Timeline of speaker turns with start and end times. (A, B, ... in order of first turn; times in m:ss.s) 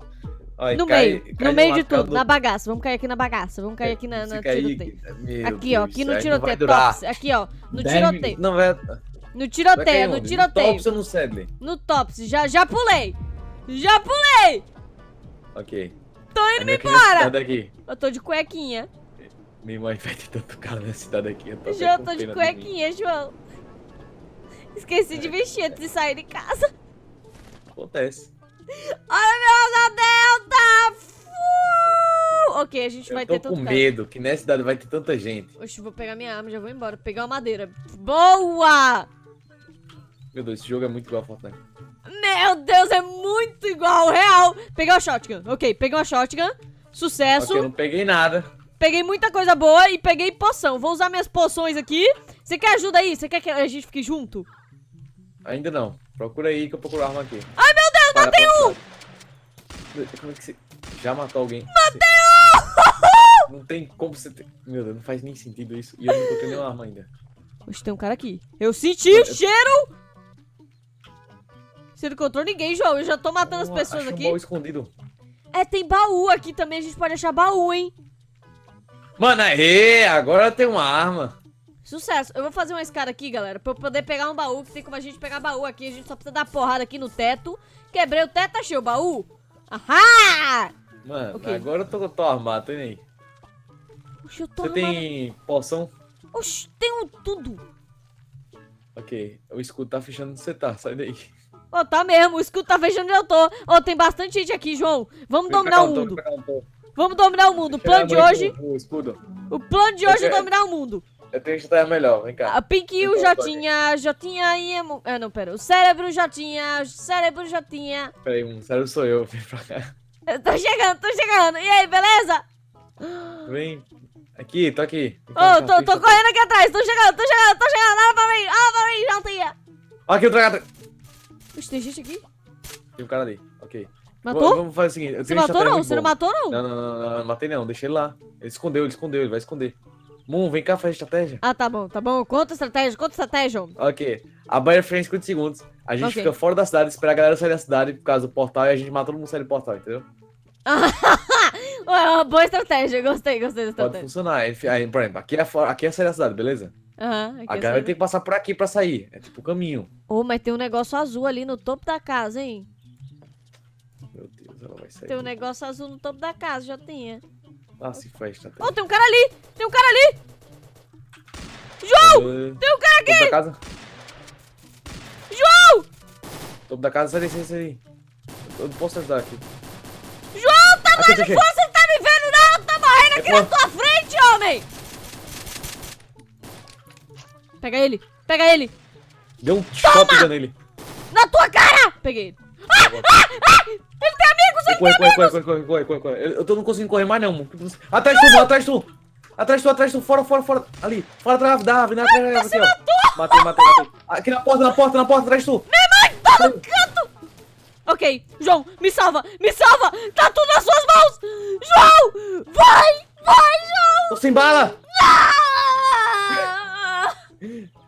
0:00.6-0:02.2 A
0:00.7-0:08.4 B
0:03.8-0:07.0 A
0:07.7-0:09.0 A
0:09.3-0:10.8 B
0:09.7-0:11.5 A
0:11.6-0:13.2 B
0:13.7-0:14.6 B
0:15.5-0:16.0 A
0:16.3-0:17.4 B
0:16.6-0:17.7 A
0:17.9-0:18.9 B
0:19.2-0:22.7 A
0:21.6-0:23.3 B
0:24.7-0:26.7 B
0:25.1-0:25.8 A
0:27.7-0:28.3 A
0:28.7-0:33.9 B
0:33.1-0:35.5 A
0:35.6-0:39.1 B
0:40.3-0:41.6 A
0:42.0-0:47.7 B
0:47.3-0:48.5 A
0:48.8-0:54.5 B
0:55.4-0:57.5 A
0:57.6-0:58.8 B
0:58.1-0:58.8 A
0:59.9-1:02.5 A
1:01.7-1:03.5 B
1:03.5-1:07.1 A
1:06.1-1:06.3 B
1:07.6-1:09.9 B
1:09.1-1:09.4 A
1:12.0-1:14.4 B
1:13.4-1:14.9 A
1:15.5-1:17.9 B
1:19.2-1:21.4 A
1:21.8-1:30.7 B
1:31.0-1:33.0 A
1:31.3-1:31.6 B
1:34.2-1:35.0 B
1:34.6-1:35.9 A
1:36.3-1:37.6 B
1:38.9-1:41.3 A
1:41.7-1:46.2 B
1:45.5-1:46.7 A
1:47.0-1:48.5 B
1:47.6-1:49.2 A
1:49.5-1:51.0 B
1:50.0-1:50.5 A
1:51.3-1:53.6 A
1:52.4-1:58.1 B
1:58.2-1:59.9 A
2:00.3-2:02.4 B
2:03.0-2:03.4 B
2:03.4-2:06.2 A
2:05.4-2:09.5 B
2:10.1-2:10.6 A
2:11.5-2:12.2 B
2:13.0-2:19.8 A
2:14.2-2:14.6 B
2:15.2-2:16.6 B
2:20.3-2:21.4 A
2:21.4-2:23.7 B
2:23.8-2:30.1 A
2:26.0-2:26.3 B
2:30.6-2:34.1 B
2:33.8-2:36.7 A
2:37.0-2:37.9 B
2:37.5-2:39.9 A
2:40.1-2:42.7 B
2:44.1-2:45.3 A
2:45.1-2:47.2 B
2:47.8-2:48.7 A
2:48.6-2:50.2 B
2:51.8-2:53.4 B
2:52.0-2:53.6 A
2:55.3-2:55.9 B
2:56.7-2:57.8 A
2:58.4-2:59.4 A
3:00.3-3:04.6 B
3:00.9-3:01.4 A
3:03.1-3:03.5 A
3:07.6-3:08.7 B
3:09.4-3:10.5 A
3:09.8-3:10.3 B
3:11.1-3:15.4 B
3:12.7-3:13.1 A
3:14.7-3:25.7 A
3:18.1-3:18.5 B
3:22.0-3:23.8 B
3:25.7-3:27.1 B
3:26.4-3:26.6 A
3:27.8-3:37.2 B
3:34.1-3:34.8 A
3:37.4-3:37.7 A